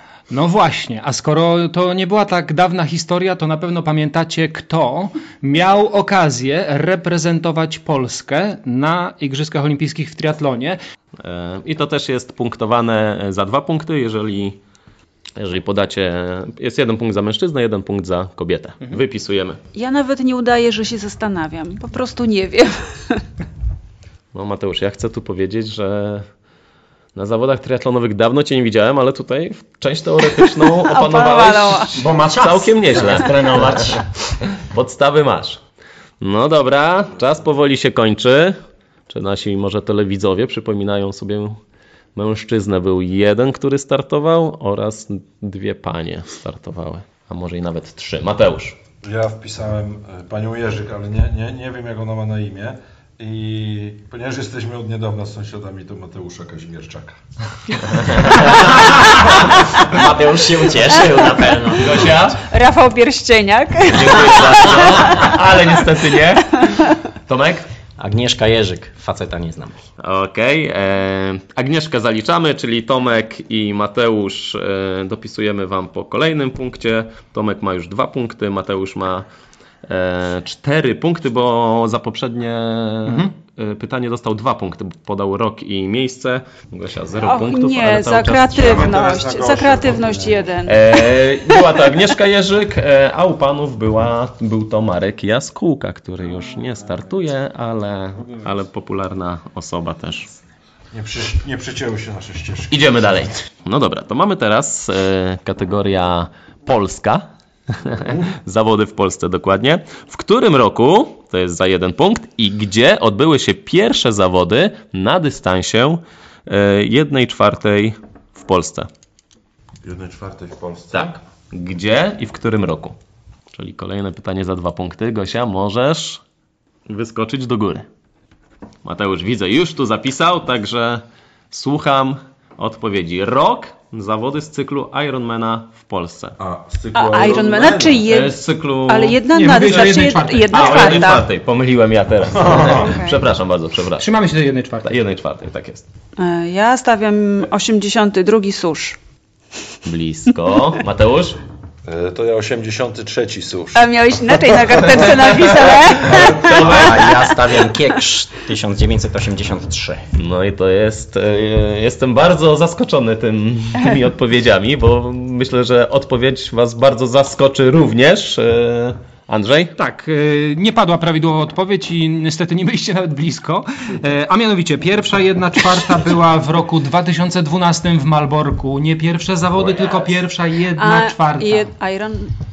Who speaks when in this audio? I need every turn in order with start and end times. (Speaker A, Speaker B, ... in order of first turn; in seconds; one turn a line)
Speaker A: 0.3-10.8
Speaker B: 11.2-14.6
Speaker B: 15.4-19.6
Speaker C: 19.7-23.2
Speaker B: 24.3-26.3
Speaker B: 27.1-35.6
Speaker C: 30.5-32.0
Speaker D: 31.9-34.0
Speaker B: 36.2-38.6
Speaker B: 39.1-41.6
Speaker B: 42.1-48.8
Speaker E: 49.0-57.2
Speaker B: 57.9-58.6
Speaker D: 58.6-62.3
Speaker B: 61.8-62.4
Speaker C: 62.4-65.4
Speaker B: 63.8-67.7
Speaker D: 68.0-69.8
Speaker B: 70.0-79.2
Speaker B: 79.8-89.0
Speaker A: 83.0-83.3
Speaker C: 87.2-91.2
Speaker E: 88.6-90.5
Speaker B: 90.7-100.3
Speaker E: 100.9-103.2
Speaker B: 102.7-118.9
Speaker E: 119.8-121.2
Speaker B: 120.9-123.0
Speaker B: 123.5-126.2
Speaker B: 126.9-127.8
Speaker B: 128.8-136.4
Speaker E: 136.4-138.1
Speaker C: 136.9-141.2
Speaker B: 138.1-139.2
Speaker A: 139.3-141.1
Speaker B: 140.5-144.1
Speaker C: 142.7-143.2
Speaker A: 144.0-144.9
Speaker B: 144.8-145.8
Speaker C: 146.2-149.0
Speaker B: 149.8-151.4
Speaker E: 151.8-153.9
Speaker C: 153.7-156.8
Speaker B: 155.0-157.3
Speaker E: 156.0-156.9
Speaker D: 156.4-160.0
Speaker B: 160.1-169.7
Speaker A: 169.8-181.7
Speaker E: 179.6-180.1
Speaker C: 180.8-182.3